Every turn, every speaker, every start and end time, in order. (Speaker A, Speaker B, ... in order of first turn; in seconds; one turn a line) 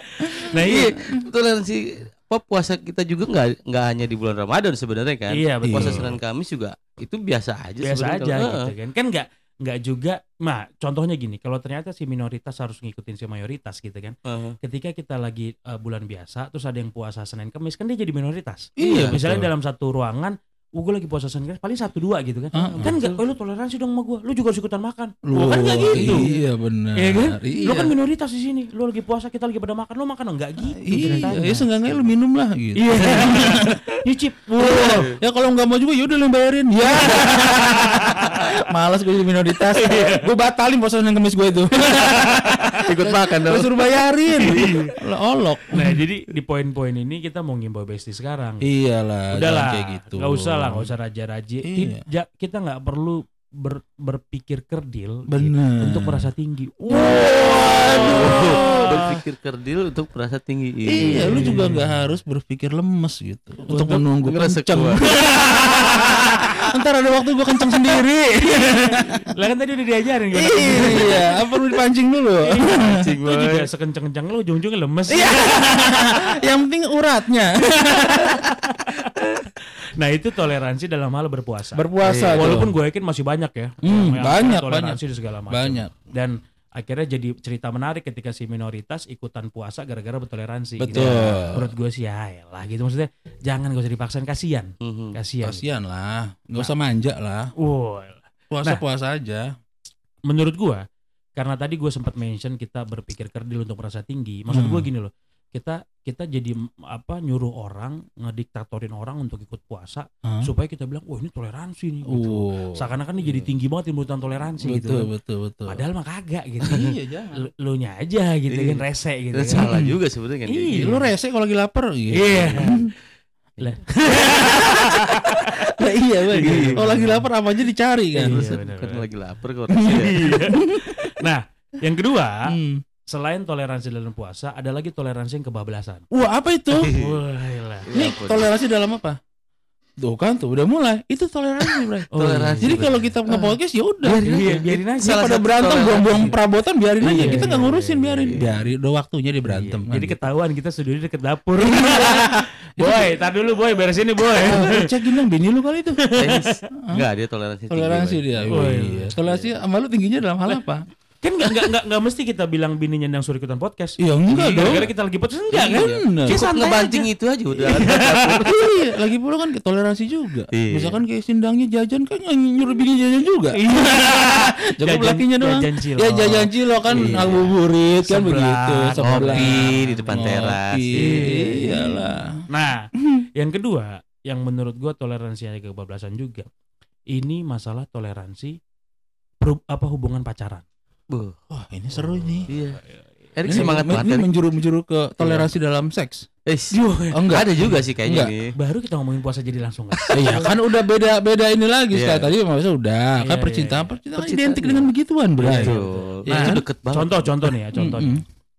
Speaker A: 0.2-1.0
Speaker B: 0.6-8.7
Speaker A: 5.3-6.1
Speaker C: 5.7-6.2
Speaker A: 7.8-26.3
Speaker B: 14.2-14.5
Speaker C: 18.8-19.5
Speaker B: 18.8-19.1
Speaker C: 22.5-23.0
Speaker B: 22.8-23.2
Speaker C: 25.2-27.9
Speaker B: 25.9-26.3
Speaker A: 26.9-32.0
Speaker C: 30.8-33.8
Speaker A: 32.8-35.1
Speaker C: 34.6-46.0
Speaker B: 34.8-35.2
Speaker A: 36.8-38.6
Speaker A: 39.5-40.3
Speaker A: 41.9-42.8
Speaker B: 42.8-44.7
Speaker A: 44.4-44.9
Speaker A: 45.7-48.7
Speaker C: 48.6-50.9
Speaker A: 49.3-59.1
Speaker C: 51.6-52.0
Speaker C: 55.3-56.3
Speaker C: 56.8-58.9
Speaker B: 58.0-61.6
Speaker C: 60.9-69.2
Speaker A: 61.0-61.9
Speaker A: 63.7-64.0
Speaker B: 64.2-65.0
Speaker A: 65.2-66.5
Speaker A: 68.5-71.3
Speaker C: 70.3-73.0
Speaker B: 70.7-71.2
Speaker A: 72.4-76.4
Speaker B: 72.9-73.7
Speaker C: 75.1-78.5
Speaker A: 77.9-95.6
Speaker C: 81.7-82.7
Speaker B: 82.0-82.6
Speaker C: 83.8-85.9
Speaker C: 90.8-91.7
Speaker B: 90.9-91.5
Speaker B: 94.8-95.2
Speaker C: 95.4-97.5
Speaker A: 97.6-98.8
Speaker C: 98.5-99.5
Speaker A: 100.3-100.8
Speaker A: 101.3-115.1
Speaker C: 104.5-104.9
Speaker C: 110.2-110.5
Speaker C: 112.1-112.8
Speaker B: 113.2-113.5
Speaker C: 114.6-115.8
Speaker A: 115.7-119.7
Speaker C: 116.6-117.5
Speaker B: 118.5-118.8
Speaker B: 119.3-120.9
Speaker C: 119.5-120.0
Speaker A: 120.5-121.1
Speaker C: 120.7-122.9
Speaker A: 122.1-122.9
Speaker A: 123.6-125.6
Speaker C: 125.7-128.5
Speaker A: 126.3-127.2
Speaker B: 126.4-126.9
Speaker A: 128.1-129.1
Speaker B: 128.3-130.3
Speaker C: 129.7-131.0
Speaker A: 129.8-132.5
Speaker C: 132.5-132.8
Speaker A: 133.1-136.0
Speaker C: 136.1-136.9
Speaker B: 136.7-137.1
Speaker A: 136.8-137.9
Speaker B: 137.8-138.5
Speaker C: 137.9-139.2
Speaker C: 140.0-142.1
Speaker A: 142.1-142.9
Speaker B: 142.1-143.4
Speaker C: 142.6-144.3
Speaker A: 144.0-145.4
Speaker B: 144.1-146.3
Speaker C: 145.0-150.2
Speaker A: 146.0-146.3
Speaker B: 147.0-147.6
Speaker A: 147.0-148.4
Speaker B: 148.2-148.6
Speaker A: 149.4-154.9
Speaker C: 151.6-153.2
Speaker C: 154.4-156.0
Speaker A: 156.0-156.5
Speaker B: 156.2-158.6
Speaker C: 157.7-160.8
Speaker A: 158.5-159.1
Speaker B: 159.2-159.5
Speaker A: 161.2-168.4
Speaker C: 164.0-164.9
Speaker B: 164.4-164.9
Speaker B: 165.5-168.6
Speaker C: 165.5-166.4
Speaker C: 168.4-182.4
Speaker B: 170.5-171.0
Speaker A: 173.5-177.4
Speaker B: 176.9-177.5
Speaker A: 178.0-181.9
Speaker B: 179.0-181.8
Speaker A: 182.5-186.4
Speaker C: 183.0-183.2
Speaker A: 187.1-188.6
Speaker A: 189.4-190.6
Speaker B: 191.1-191.3
Speaker C: 191.5-192.5
Speaker A: 191.9-192.6
Speaker B: 192.5-192.8
Speaker B: 193.3-194.3
Speaker C: 193.4-196.3
Speaker A: 193.5-193.8
Speaker B: 195.2-195.5
Speaker B: 196.4-198.5
Speaker A: 196.7-197.8
Speaker C: 197.1-198.3
Speaker A: 198.5-200.6
Speaker C: 200.1-205.8
Speaker B: 201.9-202.3
Speaker A: 203.2-203.9
Speaker B: 204.2-204.9
Speaker A: 205.4-208.2
Speaker B: 205.4-207.2
Speaker C: 206.3-206.6
Speaker C: 207.4-208.2